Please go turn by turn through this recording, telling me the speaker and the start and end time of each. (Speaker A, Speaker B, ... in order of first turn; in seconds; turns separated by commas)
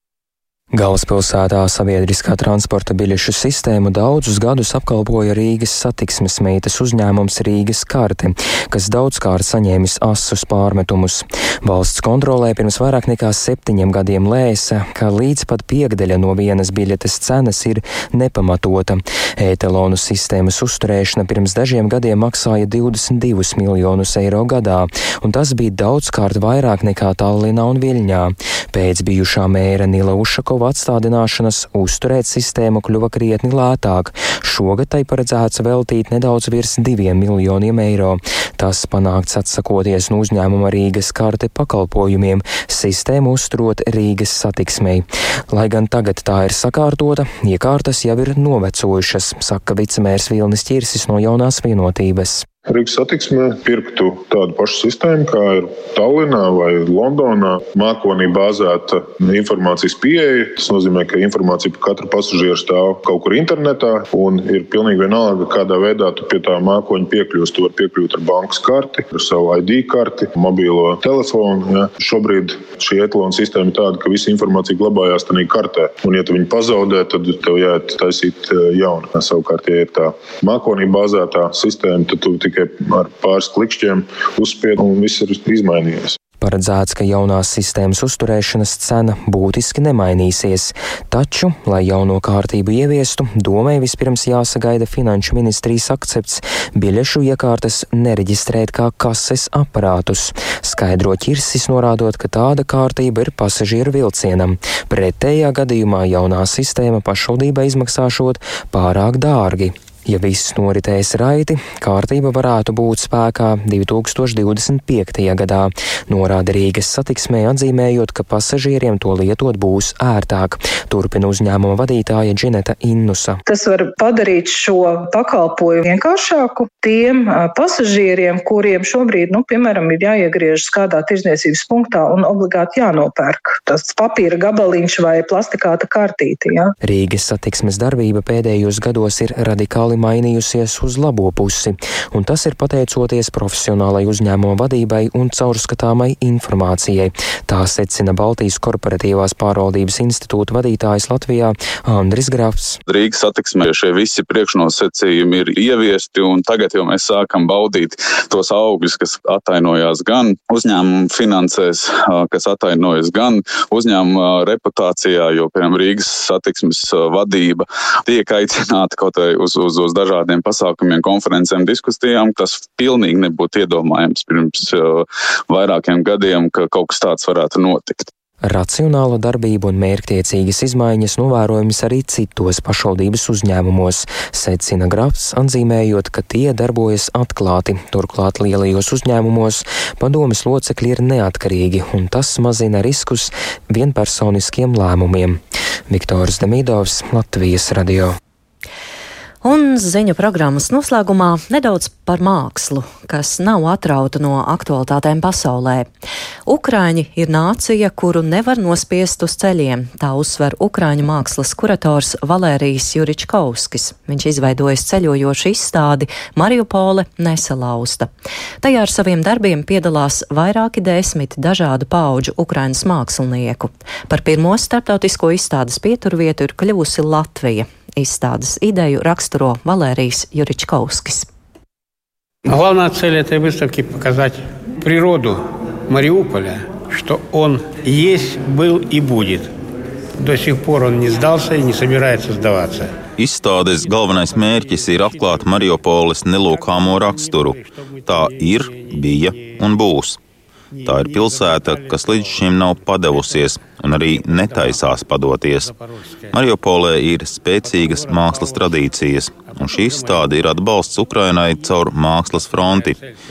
Speaker A: 0.7-52.4, Speaker B: 52.7-86.2, Speaker A: 86.4-123.4, Speaker C: 123.5-136.7, Speaker A: 136.8-152.8, Speaker D: 152.9-178.1, Speaker A: 178.4-198.1, Speaker E: 199.4-205.9, Speaker E: 206.4-218.1, Speaker E: 218.6-231.3, Speaker F: 232.4-239.5, Speaker F: 240.2-243.0, Speaker G: 243.2-250.2, Speaker F: 243.8-245.4, Speaker F: 246.5-249.6, Speaker F: 250.7-252.3, Speaker G: 250.8-255.7, Speaker F: 254.3-254.8, Speaker F: 255.6-256.3, Speaker G: 256.3-263.0, Speaker F: 257.6-258.6, Speaker F: 259.4-260.2, Speaker F: 262.6-263.2